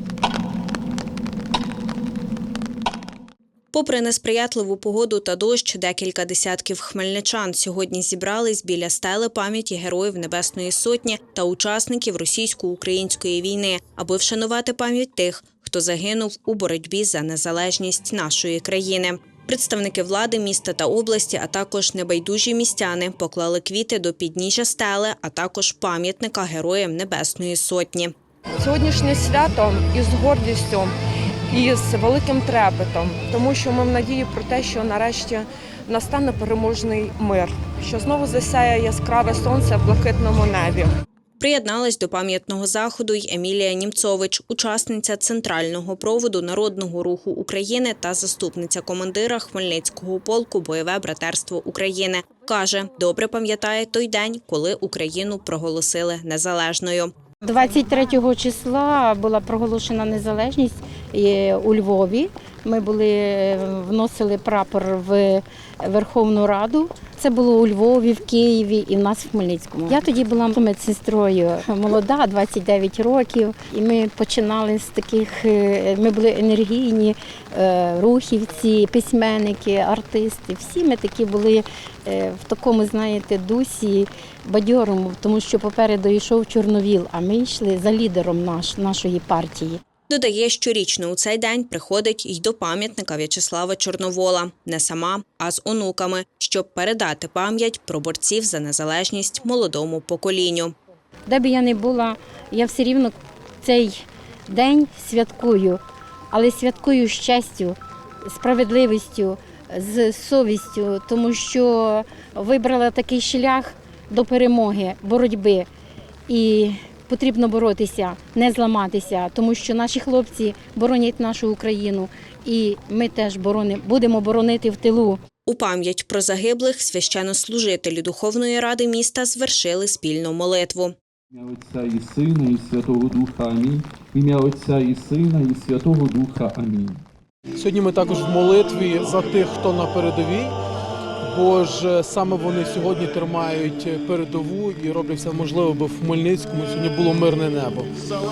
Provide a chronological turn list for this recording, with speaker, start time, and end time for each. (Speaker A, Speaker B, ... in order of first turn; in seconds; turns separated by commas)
Speaker A: 3.7-28.1, Speaker B: 28.6-31.0, Speaker B: 31.5-41.0, Speaker A: 41.4-57.1, Speaker C: 57.4-89.8, Speaker A: 90.1-100.8, Speaker C: 101.3-105.8, Speaker C: 106.3-115.7, Speaker C: 116.3-125.2, Speaker A: 125.5-130.9, Speaker D: 131.3-137.0, Speaker E: 137.6-140.6, Speaker E: 141.2-147.9